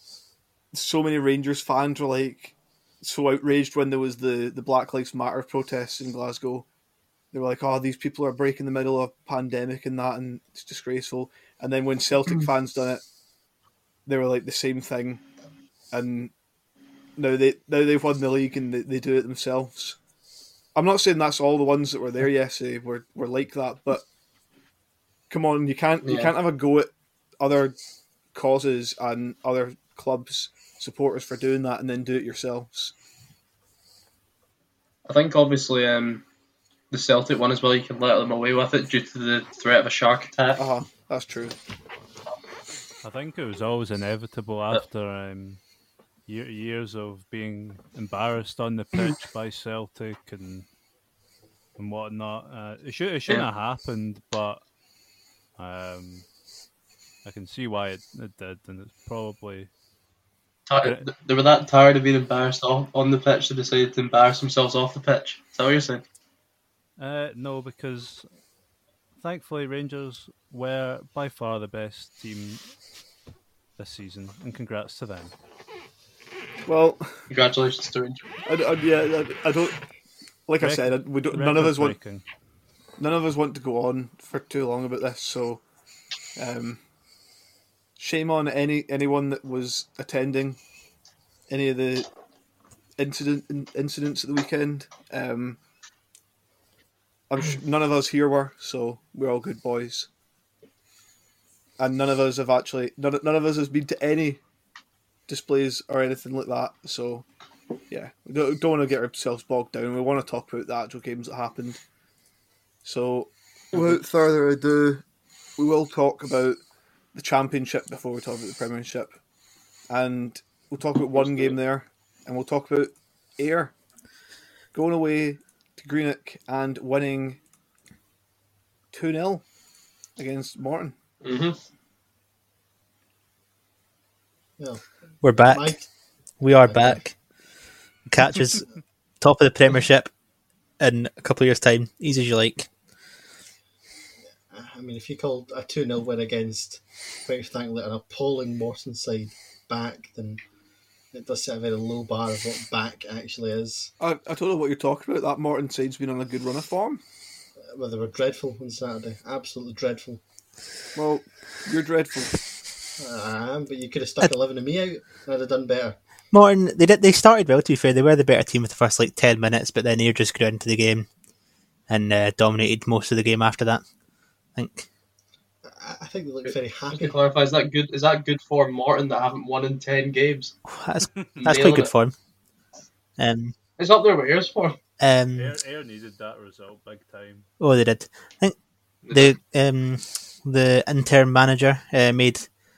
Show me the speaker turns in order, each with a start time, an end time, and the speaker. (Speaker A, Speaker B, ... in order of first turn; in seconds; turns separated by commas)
Speaker A: 0.7-6.6, Speaker A: 7.3-13.0, Speaker A: 14.0-15.2, Speaker A: 15.9-16.3, Speaker A: 17.1-20.0, Speaker A: 20.7-24.0, Speaker A: 25.3-27.8, Speaker B: 26.0-26.3, Speaker A: 28.3-32.9, Speaker B: 35.0-36.2, Speaker B: 36.9-40.6, Speaker A: 40.6-41.6, Speaker C: 43.0-45.6, Speaker C: 46.3-50.6, Speaker C: 51.8-54.6, Speaker C: 55.6-56.3, Speaker C: 57.2-59.7, Speaker B: 60.7-66.0, Speaker C: 67.0-68.3, Speaker C: 69.2-72.7, Speaker C: 73.8-75.3, Speaker A: 76.7-77.2, Speaker B: 77.3-78.2, Speaker A: 78.5-79.8, Speaker A: 80.5-82.0, Speaker C: 80.6-82.2, Speaker A: 83.0-85.6, Speaker A: 86.3-86.8, Speaker A: 88.0-90.6, Speaker A: 91.5-92.1, Speaker A: 93.0-95.6, Speaker A: 97.3-100.1, Speaker A: 101.8-104.4, Speaker A: 105.3-107.2, Speaker A: 107.9-111.8, Speaker A: 112.8-115.0, Speaker A: 115.6-116.6, Speaker A: 117.1-119.1, Speaker A: 119.9-123.7, Speaker B: 121.1-121.6, Speaker A: 124.7-127.4, Speaker A: 128.9-129.4, Speaker A: 130.2-130.9, Speaker B: 131.2-131.6, Speaker D: 134.6-135.9, Speaker E: 135.2-135.8, Speaker E: 136.4-137.2, Speaker D: 136.5-137.0, Speaker E: 138.1-138.7, Speaker E: 139.2-140.1, Speaker E: 140.8-142.7, Speaker D: 144.5-150.4, Speaker D: 151.1-153.9, Speaker A: 154.0-157.0, Speaker D: 157.6-160.2, Speaker A: 160.9-162.4, Speaker D: 163.0-166.0, Speaker E: 166.3-171.1, Speaker E: 171.9-173.8, Speaker E: 174.5-174.9, Speaker D: 175.7-177.2, Speaker B: 176.4-180.6, Speaker E: 180.7-182.1, Speaker B: 181.4-181.9, Speaker E: 183.2-183.5, Speaker B: 183.8-184.8, Speaker E: 185.0-185.5, Speaker C: 185.3-187.5, Speaker E: 187.6-188.6, Speaker B: 189.0-189.3, Speaker E: 189.1-192.5